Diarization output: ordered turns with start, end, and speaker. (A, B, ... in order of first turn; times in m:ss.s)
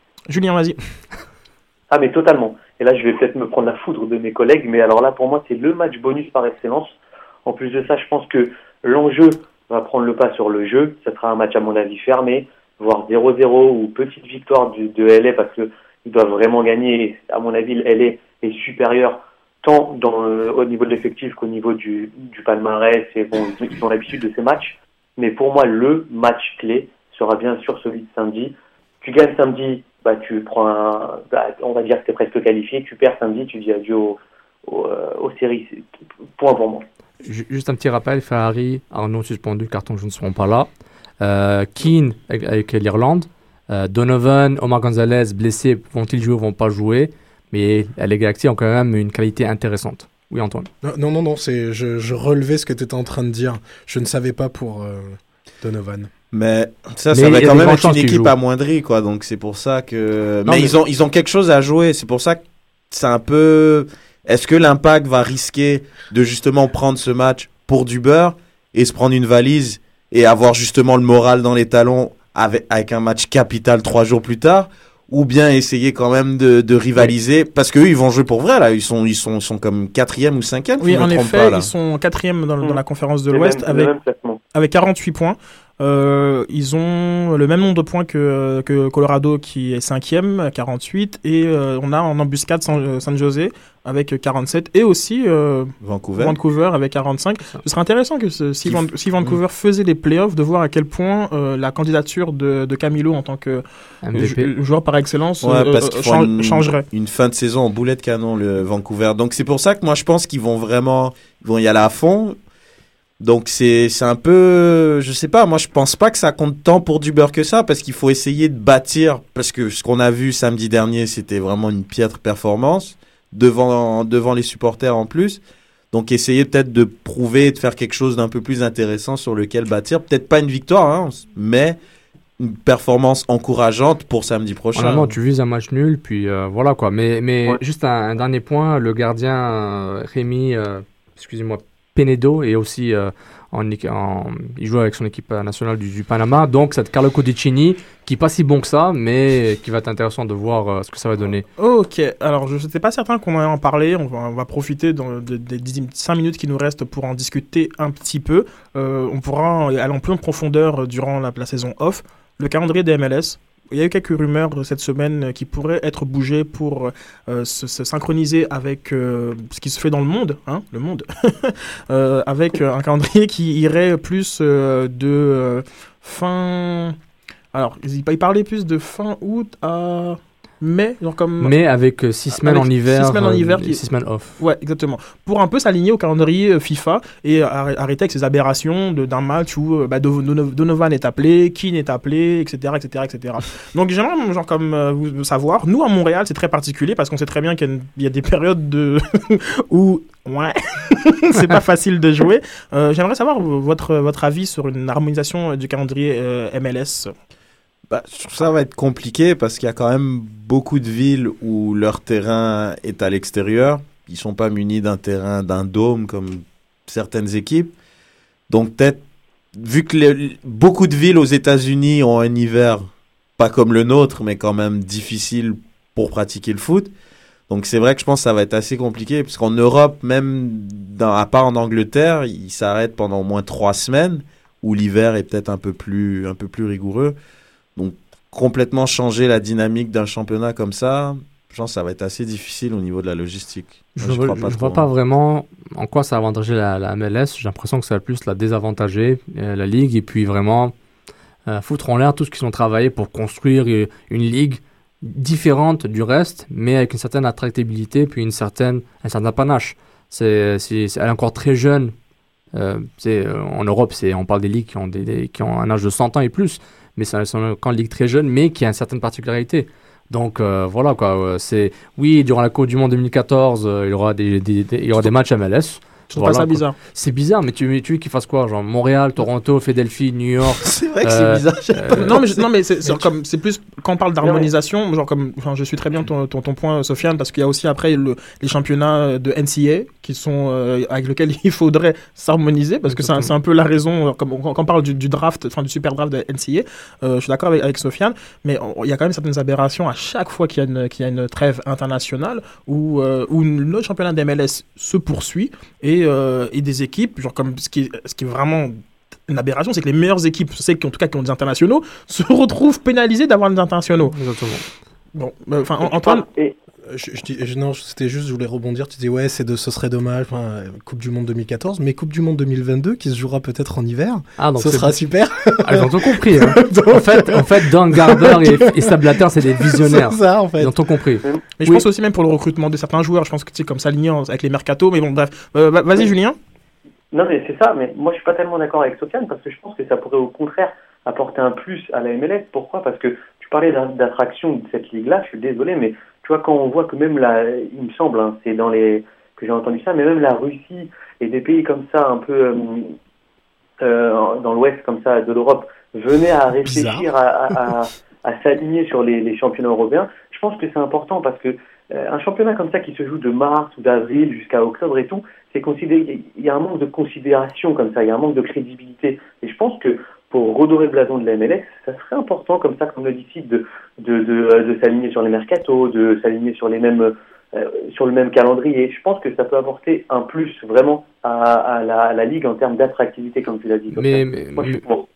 0:00.3-0:00.8 A
0:01.9-0:35.8 B
0:36.4-0:36.8 B
0:37.2-0:40.7 C
0:41.2-0:50.7 C
0:50.8-0:56.1 D
0:56.3-1:21.7 E
0:57.1-0:58.3 C
1:00.5-1:00.7 C
1:20.8-1:23.9 A
1:22.6-1:24.4 B
1:24.5-1:46.8 A
1:35.8-1:36.4 E
1:38.6-1:39.4 E
1:44.0-1:44.5 C
1:45.4-1:52.4 E
1:53.2-2:11.8 E
2:12.4-2:15.1 E
2:14.8-2:31.4 C
2:31.6-2:57.0 A
2:57.5-3:01.6 A
3:01.4-3:04.4 C
3:02.3-3:03.8 A
3:04.4-3:27.1 A
3:27.9-3:37.7 E
3:38.5-3:39.0 E
3:39.6-3:42.9 E
3:43.4-3:46.9 E
3:47.5-3:57.2 E
3:57.8-4:04.9 E
4:04.0-4:10.7 C
4:11.5-4:21.9 C
4:22.5-4:42.1 C
4:36.1-4:36.8 A
4:40.6-4:42.4 E
4:42.0-5:14.2 A
4:44.2-4:44.5 B
4:52.9-4:53.3 C
5:14.0-5:14.6 C
5:15.2-5:16.3 A
5:15.8-5:16.6 B
5:16.9-5:30.8 D
5:24.4-5:25.0 C
5:25.6-5:31.8 C
5:31.6-5:36.4 A
5:37.1-5:52.9 B
5:53.8-6:25.1 B
5:56.6-5:57.1 D
6:23.9-6:24.8 C